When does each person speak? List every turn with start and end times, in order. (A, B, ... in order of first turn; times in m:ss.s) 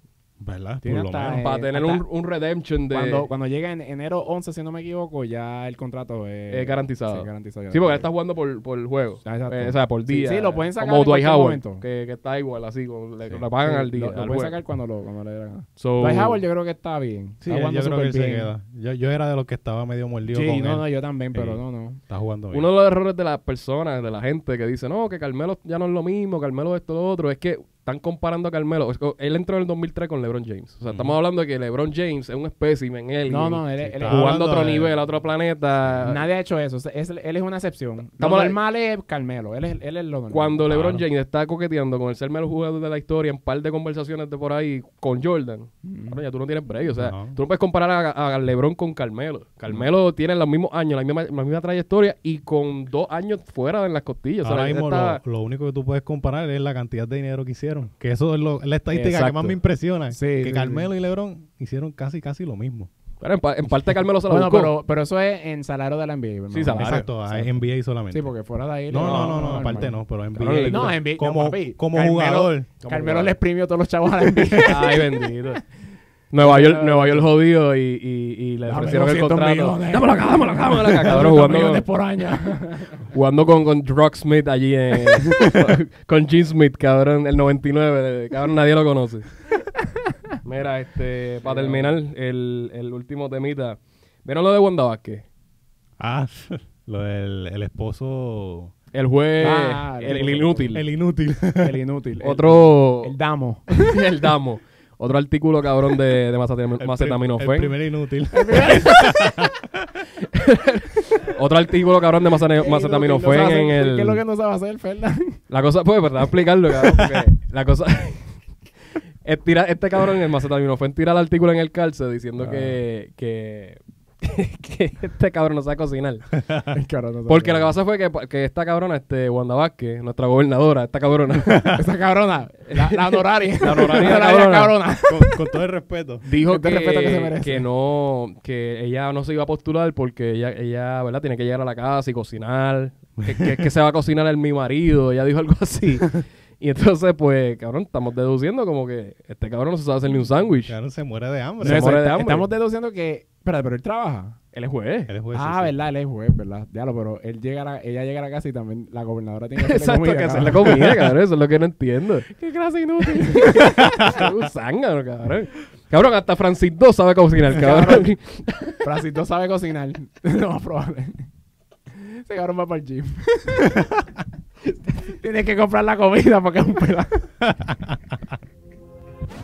0:00.4-0:01.4 A
0:00.8-0:02.0 B
0:01.2-0:03.3 C
0:02.9-0:08.1 B
0:06.5-0:14.6 C
0:09.2-0:11.8 B
0:13.6-0:18.5 B
0:15.8-0:16.4 C
0:17.4-0:22.7 A
0:20.3-0:22.0 B
0:22.5-0:36.2 C
0:30.9-0:31.2 A
0:33.3-0:34.4 B
0:33.8-0:35.0 A
0:36.0-0:40.6 B
0:38.2-0:38.6 C
0:40.3-0:55.2 C
0:40.7-0:41.0 A
0:45.8-0:46.2 B
0:47.0-0:47.4 A
0:54.4-1:02.9 A
0:58.9-0:59.6 C
1:00.1-1:00.9 B
1:03.2-1:04.8 C
1:04.3-1:07.5 B
1:06.5-1:07.1 C
1:06.7-1:08.3 A
1:08.1-1:10.0 B
1:08.9-1:12.7 A
1:09.0-1:11.0 C
1:10.7-1:15.3 B
1:12.8-1:13.4 C
1:14.6-1:15.6 C
1:16.3-1:21.9 C
1:16.4-1:17.3 B
1:18.7-1:23.1 B
1:23.1-1:29.3 C
1:30.4-1:35.2 C
1:31.4-1:32.0 B
1:36.0-1:38.7 A
1:38.9-1:40.9 C
1:39.4-1:40.8 B
1:40.1-1:41.8 A
1:41.6-1:44.0 B
1:42.2-1:43.1 C
1:43.7-1:47.7 C
1:46.8-1:50.0 A
1:48.3-1:49.5 B
1:50.2-1:54.2 C
1:52.6-1:55.4 B
1:55.5-1:58.4 C
1:56.8-1:57.1 B
1:59.2-2:06.4 C
2:02.4-2:02.8 B
2:06.7-2:07.8 B
2:07.3-2:11.8 C
2:11.5-2:11.8 A
2:11.7-2:15.4 B
2:12.7-2:14.8 C
2:15.1-2:16.2 A
2:16.2-2:30.8 C
2:16.3-2:17.7 B
2:23.2-2:23.6 A
2:30.7-2:31.9 A
2:31.6-2:34.4 B
2:31.6-2:32.5 C
2:34.5-2:35.1 C
2:35.1-2:35.7 A
2:35.3-2:41.1 B
2:39.6-2:42.3 C
2:42.3-2:44.3 B
2:43.0-2:48.9 C
2:43.7-2:44.3 A
2:47.5-2:48.1 B
2:48.8-2:51.2 B
2:51.9-2:53.9 B
2:54.9-2:57.3 B